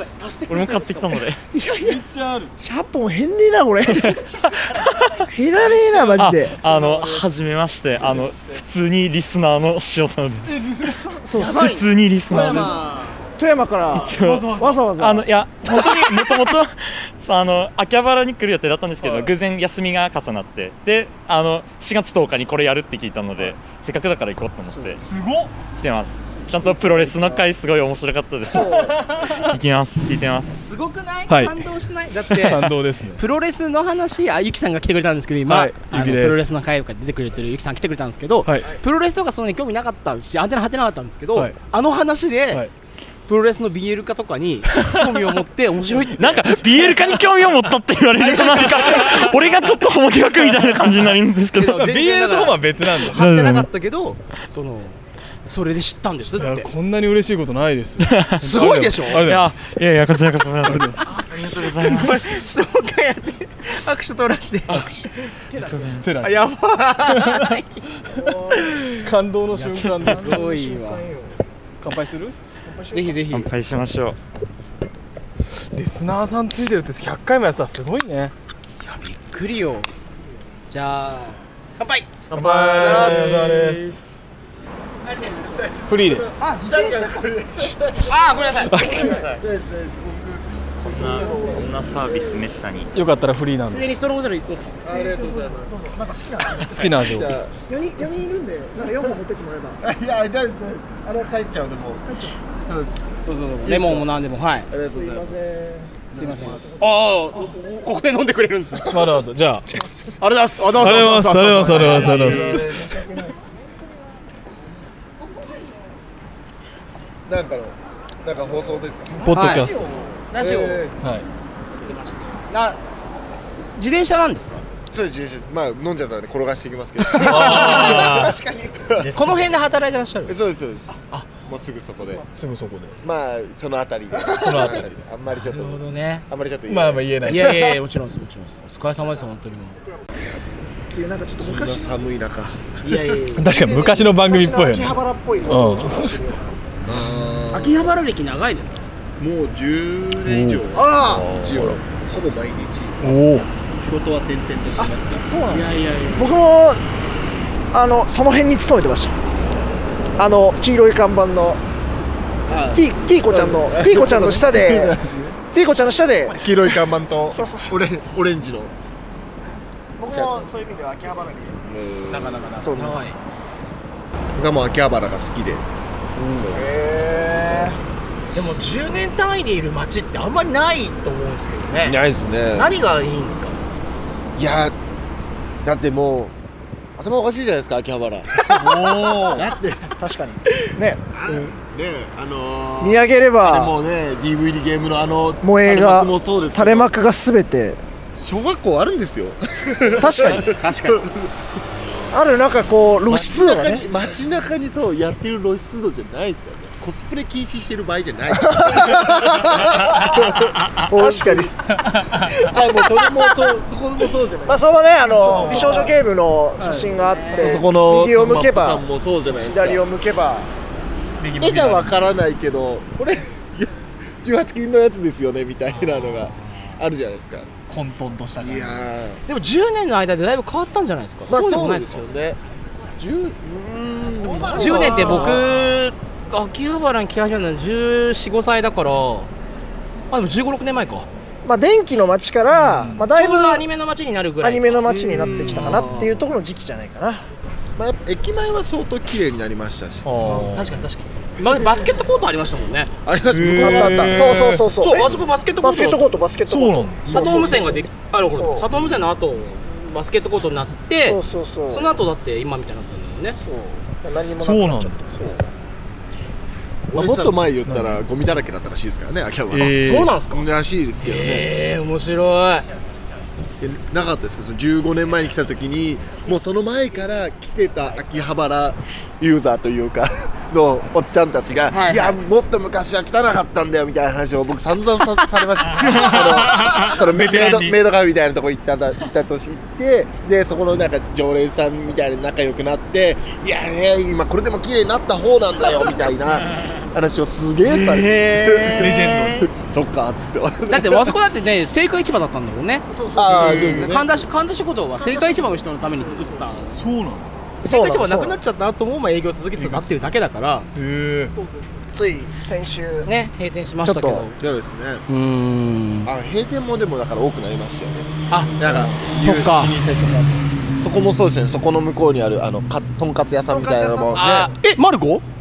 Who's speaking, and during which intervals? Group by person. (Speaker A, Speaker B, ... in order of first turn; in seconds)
Speaker A: 0.5-1.4, 4.0-5.1, 6.2-10.5, 11.4-12.8, 13.9-25.0, 25.7-30.6, 46.1-51.8, 53.1-53.7, 58.0-58.5, 59.2-62.4, 65.6-66.2, 73.3-74.2, 82.3-83.9, 89.0-89.4, 90.8-92.9
Speaker B: 1.5-2.1, 2.6-4.2, 5.3-6.6, 11.1-12.5, 13.4-16.4, 24.7-25.0, 26.5-27.5, 28.5-29.0, 65.5-66.0, 68.1-68.8, 70.0-71.4, 72.6-73.2, 86.4-87.1, 90.8-91.8, 94.8-97.1, 97.7-99.8, 102.0-102.4, 104.8-106.7, 109.7-110.2, 111.7-113.4, 119.2-120.4, 127.5-129.0, 134.2-134.7, 139.2-140.3, 140.9-142.1, 144.0-146.8, 150.7-151.5, 154.8-156.8, 157.7-159.1, 160.2-161.6, 162.7-166.8, 167.3-167.8, 170.0-171.7, 172.6-173.1, 176.5-177.8, 188.6-191.5, 192.8-193.8, 195.4-197.8, 200.0-200.6, 202.1-203.9, 208.3-211.6, 214.5-220.5, 234.1-235.4, 241.4-243.7, 244.4-247.2, 253.6-258.7, 261.0-262.0, 263.4-265.4, 302.9-303.9, 305.0-306.5, 307.6-308.4, 311.9-313.1, 313.8-314.3, 323.5-324.5
Speaker C: 1.8-2.5, 5.6-7.3, 8.0-8.6, 10.4-11.2, 14.1-14.8, 19.0-19.3, 25.0-25.6, 28.8-29.4, 31.3-31.6, 32.3-33.2, 35.5-36.5, 50.5-51.0, 51.7-53.2, 56.3-59.6, 60.6-61.1, 64.7-65.1, 66.0-66.4, 67.1-67.5, 69.0-70.5, 71.8-72.4, 75.7-78.3, 82.3-84.0, 85.9-86.3, 88.7-89.2, 92.9-93.9, 96.6-97.3, 108.9-109.7, 110.8-112.6, 119.2-119.9, 121.0-121.3, 127.1-128.4, 131.1-131.4, 132.2-133.0, 134.4-134.8, 136.7-137.7, 143.3-146.2, 146.9-147.2, 150.2-150.7, 153.0-153.5, 172.1-173.1, 188.8-189.2, 212.0-212.4, 215.3-215.8, 221.2-222.1, 227.7-228.9, 234.9-235.5, 242.5-243.0, 250.1-250.4, 253.3-254.6, 256.5-257.3, 264.4-265.1, 267.6-268.0, 269.5-270.2, 285.8-287.8, 298.7-299.4, 303.3-303.9, 306.8-307.3, 309.6-310.0, 310.8-311.3
Speaker D: 11.4-12.8, 30.6-42.7, 43.3-46.6, 48.2-49.2, 51.6-56.7, 58.4-59.3, 61.0-65.0, 66.2-67.8, 68.6-71.1, 72.9-73.5, 78.8-79.9, 80.7-82.1, 82.9-83.2, 88.0-88.9, 93.7-95.0, 103.3-104.7, 106.1-109.0, 110.2-112.7, 119.3-119.7, 120.3-120.8, 122.5-122.8, 123.8-124.6, 127.2-127.8, 129.1-130.4, 135.4-136.2, 137.2-139.8, 142.8-144.1, 147.5-148.9, 155.5-156.3, 172.8-173.2, 178.3-182.0, 182.5-183.6, 188.6-189.3, 200.2-201.1, 215.3-216.0, 216.6-217.6, 225.7-226.7, 229.3-232.1, 234.5-239.3, 240.1-241.1, 243.0-246.2, 250.2-252.9, 254.8-256.1, 257.1-263.4, 266.9-267.4, 269.8-270.5, 271.0-272.7, 281.7-282.2, 297.7-299.4, 300.7-306.8, 307.6-310.7, 313.1-314.4, 315.1-316.1, 318.3-319.8, 324.1-325.2
Speaker E: 82.8-83.3, 85.0-92.1, 94.8-95.9, 97.0-97.5, 99.8-102.0, 102.7-103.0, 103.6-104.1, 104.7-105.4, 106.1-106.8, 110.8-113.3, 117.3-119.3, 120.3-121.0, 124.9-129.1, 130.3-132.3, 133.0-137.7, 141.4-142.7, 146.9-147.9, 149.2-155.3, 162.5-165.2, 166.3-168.7, 170.1-170.4, 171.6-172.6, 174.4-175.6, 176.2-176.8, 181.8-182.7, 184.4-184.8, 185.6-186.3, 187.0-189.9, 191.1-196.9, 198.2-201.3, 203.1-211.5, 212.3-215.7, 217.3-219.8, 221.4-223.7, 224.2-227.6, 228.4-229.2, 231.3-232.4, 233.3-235.4, 247.8-250.8, 253.1-254.4, 255.0-255.2, 257.1-257.8, 266.9-271.5, 273.6-301.1, 303.2-304.2, 314.4-315.0, 316.1-324.5